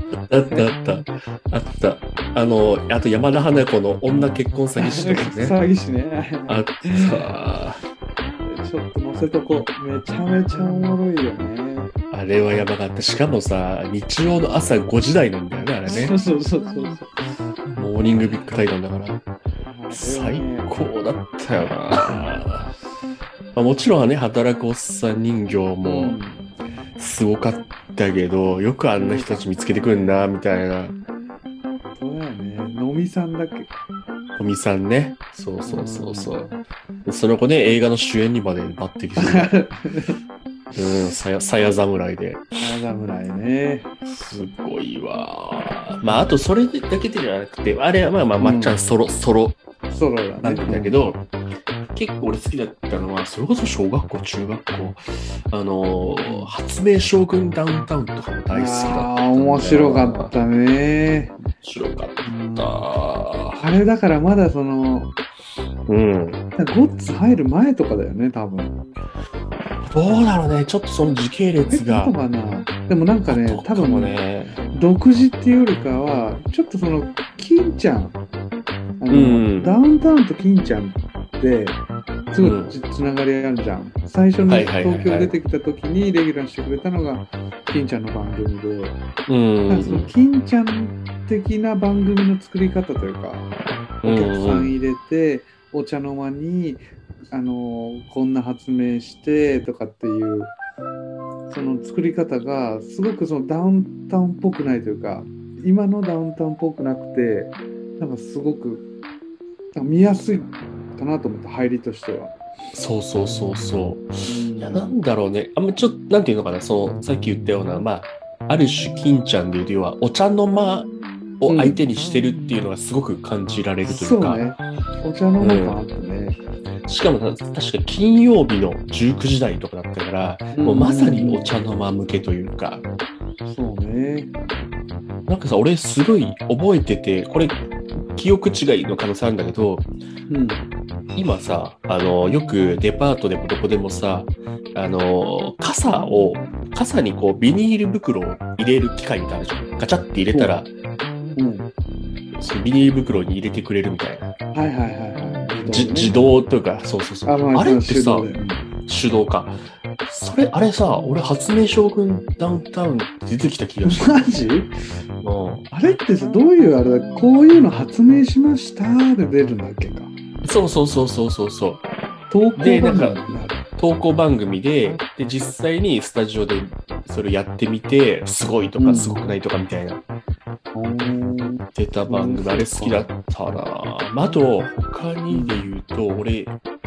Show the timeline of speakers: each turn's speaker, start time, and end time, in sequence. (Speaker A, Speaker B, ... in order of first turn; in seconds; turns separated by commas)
Speaker A: 0.3-5.6, Speaker B: 4.8-7.2, Speaker A: 6.5-7.8, Speaker B: 8.5-11.9, Speaker A: 12.1-16.2, Speaker B: 15.9-17.1, Speaker A: 17.8-19.3, Speaker B: 19.6-20.7, Speaker A: 19.9-22.7, Speaker A: 23.6-26.2, Speaker B: 25.8-26.5, Speaker A: 27.0-31.0, Speaker B: 29.0-30.3, Speaker B: 31.9-33.7, Speaker A: 34.4-39.6, Speaker B: 35.6-36.5, Speaker B: 39.2-40.2, Speaker A: 40.8-42.6, Speaker B: 42.6-44.0, Speaker A: 44.2-49.6, Speaker B: 48.4-48.8, Speaker B: 49.9-51.0, Speaker A: 50.4-51.2, Speaker A: 51.9-60.3, Speaker B: 56.2-56.5, Speaker B: 58.5-61.4, Speaker A: 61.6-63.6, Speaker B: 62.2-62.8, Speaker B: 63.6-65.2, Speaker A: 65.9-66.4, Speaker B: 66.5-68.8, Speaker A: 69.9-72.2, Speaker B: 71.7-78.2, Speaker A: 73.3-74.6, Speaker B: 79.0-89.0, Speaker A: 79.1-79.8, Speaker A: 82.4-82.8, Speaker A: 84.5-85.3, Speaker A: 89.3-90.1, Speaker B: 89.7-93.5, Speaker A: 94.0-94.7, Speaker B: 94.0-100.5, Speaker B: 101.5-108.9, Speaker B: 109.8-112.3, Speaker A: 112.7-120.9, Speaker B: 114.3-115.0, Speaker A: 121.4-124.5, Speaker B: 121.5-121.8, Speaker B: 123.8-126.4, Speaker A: 125.4-125.8, Speaker A: 126.9-132.8, Speaker B: 130.5-131.5, Speaker B: 133.4-134.3, Speaker A: 135.3-139.9, Speaker B: 140.3-140.7, Speaker A: 141.2-150.7, Speaker B: 150.3-150.6, Speaker B: 151.4-151.7, Speaker A: 152.4-154.3, Speaker B: 154.5-156.2, Speaker A: 155.6-158.3, Speaker B: 157.2-158.7, Speaker A: 158.9-164.2, Speaker B: 163.8-164.7, Speaker A: 165.2-165.7, Speaker B: 165.7-170.1, Speaker A: 170.4-171.8, Speaker B: 172.3-173.7, Speaker A: 172.6-173.2, Speaker A: 173.8-180.0, Speaker B: 178.8-179.4, Speaker B: 180.7-183.1, Speaker A: 181.8-186.6, Speaker B: 185.3-185.7